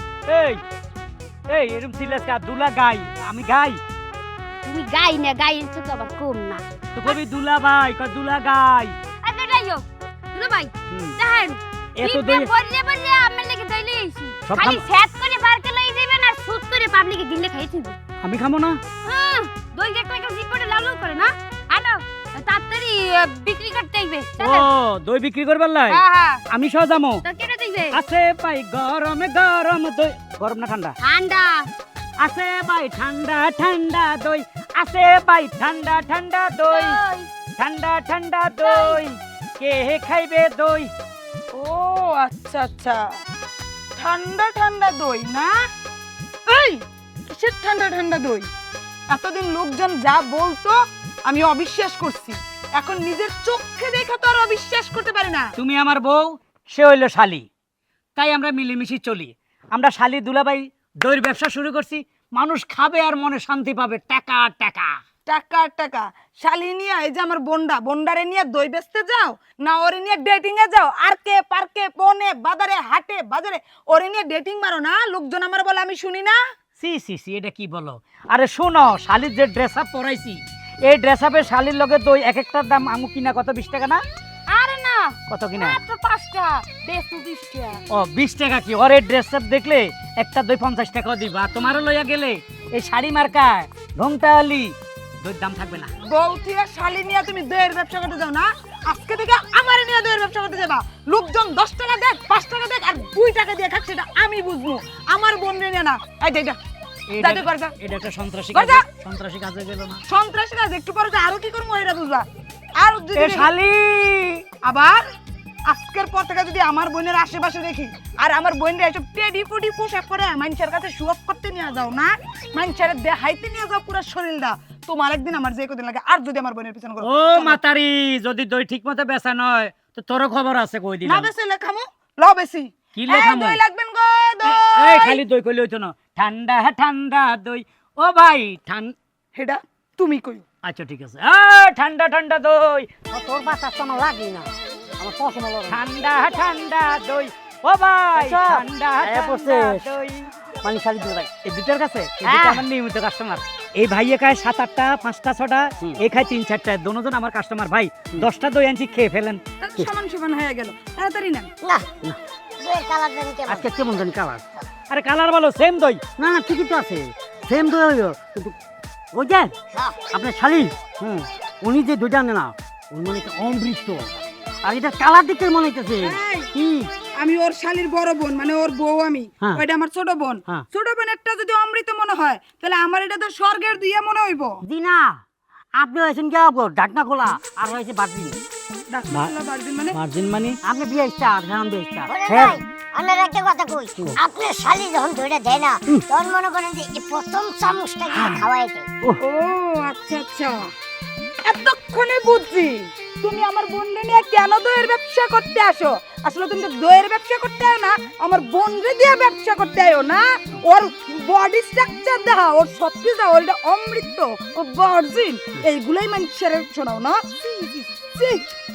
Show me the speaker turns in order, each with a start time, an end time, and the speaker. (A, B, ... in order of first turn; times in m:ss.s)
0:00.3-0:00.6 A
0:01.5-0:03.8 A
0:04.6-0:07.2 B
0:07.0-0:08.9 A
0:09.2-0:18.0 B
0:10.9-0:11.2 A
0:12.0-0:12.5 A
0:14.5-0:14.8 A
0:18.2-0:18.8 A
0:19.0-0:24.7 B
0:24.4-0:27.2 A
0:25.9-0:26.4 B
0:27.2-0:28.0 B
0:27.9-0:31.0 A
0:31.0-0:31.7 B
0:32.2-0:37.0 A
0:36.7-0:37.3 B
0:37.6-0:40.9 A
0:38.6-0:39.0 B
0:41.5-0:43.0 C
0:44.0-0:45.6 C
0:46.5-0:48.5 C
0:49.1-0:55.5 C
0:55.6-0:57.4 A
0:58.2-1:04.9 A
1:05.3-1:16.4 C
1:16.8-1:24.0 A
1:24.5-1:27.8 B
1:25.3-1:25.8 A
1:27.9-1:35.9 A
1:36.0-1:46.6 C
1:47.1-1:50.0 A
1:47.2-1:47.7 C
1:48.5-1:48.8 C
1:50.1-1:52.2 C
1:52.8-1:53.5 C
1:53.2-1:54.4 A
1:54.6-1:55.0 C
1:55.7-2:07.6 C
2:07.0-2:11.3 A
2:11.0-2:15.2 C
2:12.9-2:13.6 A
2:14.4-2:18.9 A
2:19.3-2:20.4 C
2:20.6-2:22.9 A
2:23.1-2:25.8 D
2:25.7-2:30.3 A
2:28.1-2:29.9 D
2:30.6-2:31.3 D
2:31.4-2:39.4 A
2:32.2-2:32.6 D
2:39.6-2:41.5 C
2:41.6-2:41.9 E
2:42.6-2:43.7 E
2:43.5-2:44.4 D
2:44.9-2:46.0 A
2:46.2-2:48.5 D
2:49.1-2:49.5 D
2:49.7-2:50.0 E
2:50.1-2:54.0 D
2:54.6-2:56.9 D
2:56.0-2:56.5 C
2:57.2-3:04.6 C
3:04.6-3:05.2 D
3:05.8-3:08.4 D
3:08.9-3:10.0 C
3:09.9-3:10.6 A
3:10.6-3:12.6 D
3:12.1-3:18.9 E
3:18.1-3:18.4 A
3:19.2-3:20.7 C
3:21.4-3:38.4 C